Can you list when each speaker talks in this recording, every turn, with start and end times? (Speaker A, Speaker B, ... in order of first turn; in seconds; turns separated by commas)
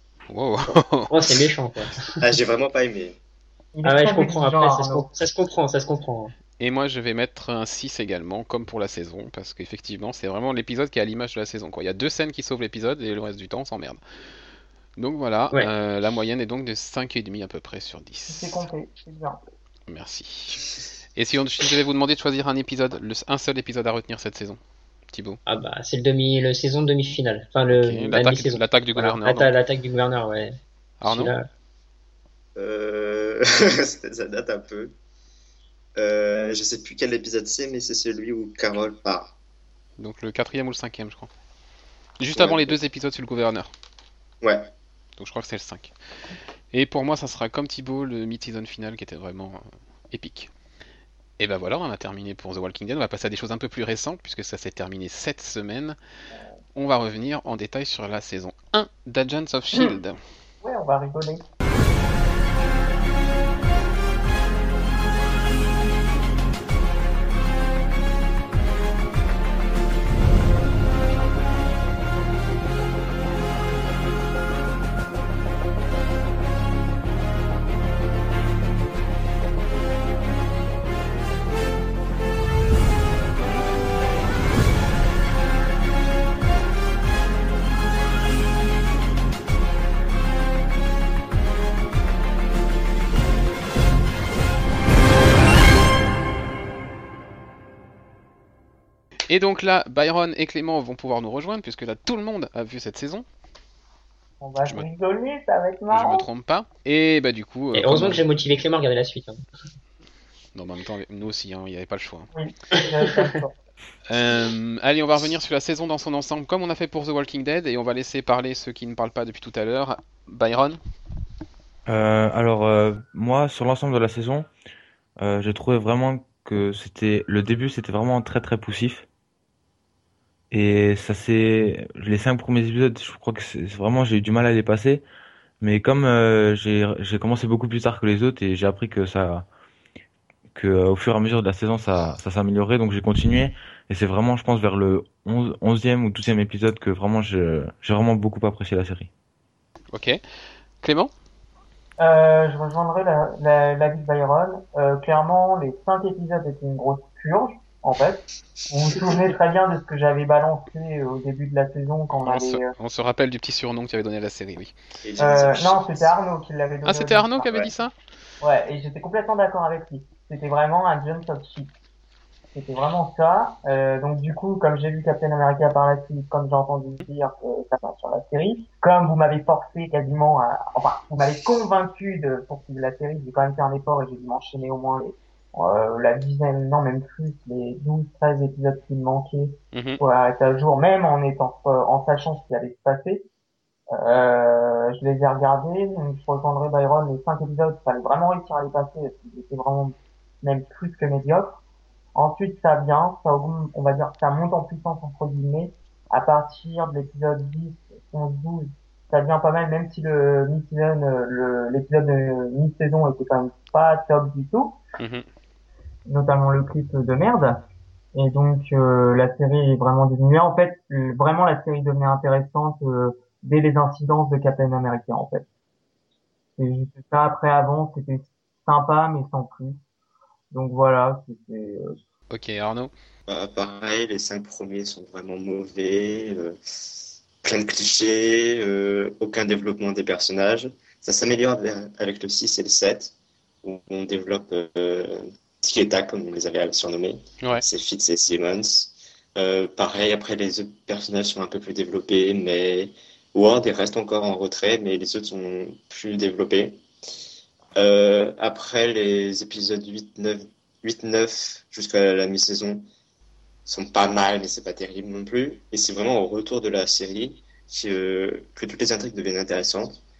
Speaker A: 0.3-1.1, Speaker B: 1.1-2.2, Speaker C: 2.2-3.2, Speaker D: 3.8-5.1, Speaker B: 3.8-6.3, Speaker A: 6.6-14.0, Speaker A: 15.0-18.7, Speaker D: 18.3-19.4, Speaker A: 19.9-24.6, Speaker A: 25.1-25.4, Speaker B: 25.5-31.5, Speaker A: 27.7-29.5, Speaker A: 31.0-31.3, Speaker C: 32.6-34.9, Speaker C: 36.0-39.3, Speaker A: 40.0-41.3, Speaker A: 42.2-43.7, Speaker C: 42.3-42.8, Speaker C: 44.4-44.7, Speaker A: 45.2-45.9, Speaker A: 46.7-50.5, Speaker A: 51.4-56.0, Speaker A: 56.8-60.2, Speaker D: 60.6-61.4, Speaker A: 99.3-103.3, Speaker D: 104.4-106.3, Speaker A: 105.9-108.2, Speaker B: 107.7-109.4, Speaker A: 110.5-112.3, Speaker D: 112.3-113.5, Speaker B: 112.8-113.3, Speaker A: 114.1-120.8, Speaker E: 121.9-124.5, Speaker E: 125.2-129.1, Speaker E: 130.5-135.0, Speaker E: 135.6-139.5, Speaker E: 140.5-149.1, Speaker A: 149.9-150.2, Speaker A: 150.8-151.1, Speaker D: 152.0-162.7, Speaker A: 162.2-164.7, Speaker C: 165.0-166.1, Speaker D: 165.2-167.5, Speaker A: 166.8-167.9, Speaker D: 168.4-171.7, Speaker D: 172.5-193.3, Speaker A: 189.7-190.0, Speaker D: 193.9-201.6, Speaker D: 202.2-214.8, Speaker A: 215.0-215.3, Speaker D: 216.1-217.6, Speaker D: 218.2-225.4, Speaker D: 226.6-229.8, Speaker D: 230.5-232.0, Speaker A: 232.3-232.9, Speaker C: 233.3-236.6, Speaker C: 237.4-256.8, Speaker C: 257.8-262.9, Speaker C: 263.7-270.0